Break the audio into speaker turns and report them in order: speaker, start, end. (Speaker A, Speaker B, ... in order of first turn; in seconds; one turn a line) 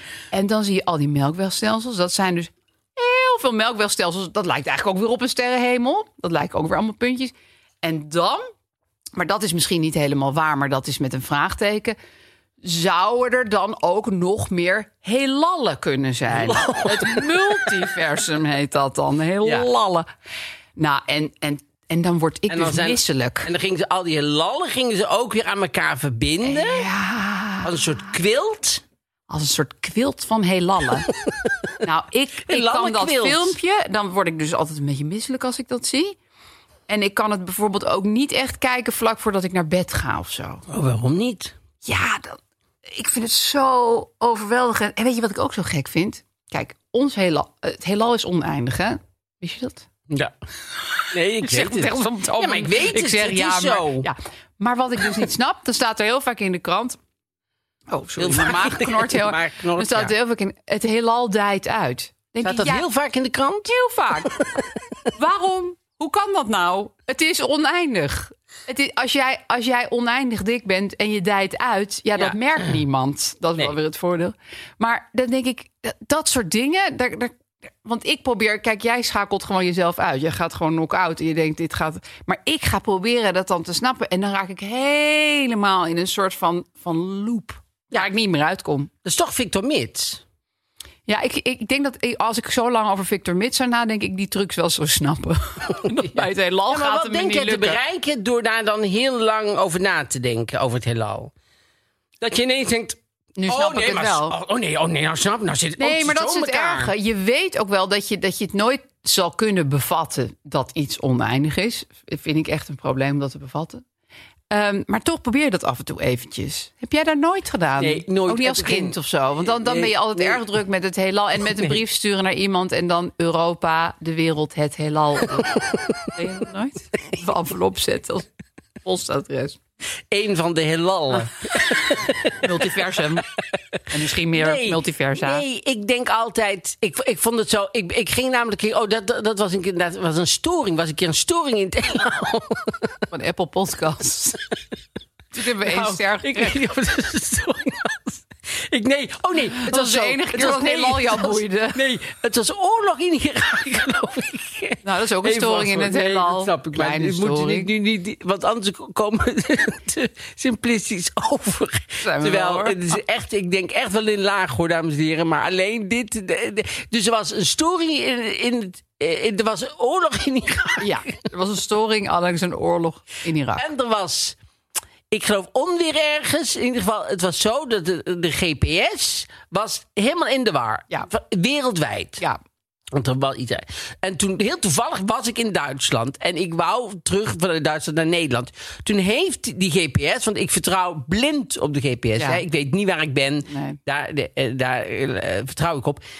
Speaker A: 0.3-8.5
Speaker A: 9.2-11.9
Speaker A: 12.6-20.1
Speaker B: 16.3-17.8
Speaker A: 20.8-23.5
Speaker B: 22.5-26.9
Speaker A: 26.4-28.1
Speaker B: 27.6-28.8
Speaker A: 29.3-31.1
Speaker B: 31.2-31.5
Speaker A: 31.8-36.1
Speaker B: 32.4-33.6
Speaker A: 36.9-40.6
Speaker B: 40.7-41.5
Speaker A: 41.8-49.9
Speaker B: 50.1-50.3
Speaker B: 51.1-54.1
Speaker A: 51.4-57.0
Speaker A: 57.9-62.9
Speaker B: 58.2-60.1
Speaker B: 62.4-63.7
Speaker A: 63.6-64.3
Speaker B: 64.2-64.8
Speaker A: 65.2-88.9
Speaker B: 89.0-90.2
Speaker A: 91.1-97.8
Speaker B: 95.8-101.3
Speaker B: 102.2-106.9
Speaker A: 103.4-104.3
Speaker A: 105.8-113.8
Speaker A: 114.5-125.6
Speaker B: 117.8-120.4
Speaker B: 121.4-121.8
Speaker B: 125.3-126.1
Speaker A: 126.1-128.3
Speaker A: 128.8-129.6
Speaker B: 130.1-132.8
Speaker A: 132.4-133.3
Speaker A: 133.9-135.4
Speaker B: 134.3-142.9
Speaker A: 143.1-144.4
Speaker A: 145.3-146.6
Speaker B: 145.6-171.2
Speaker A: 149.6-151.8
Speaker A: 154.8-157.7
Speaker A: 162.0-162.9
Speaker A: 170.8-173.6
Speaker B: 173.5-174.4
Speaker B: 175.1-182.2
Speaker B: 182.9-196.0
Speaker A: 192.2-192.4
Speaker A: 193.5-193.8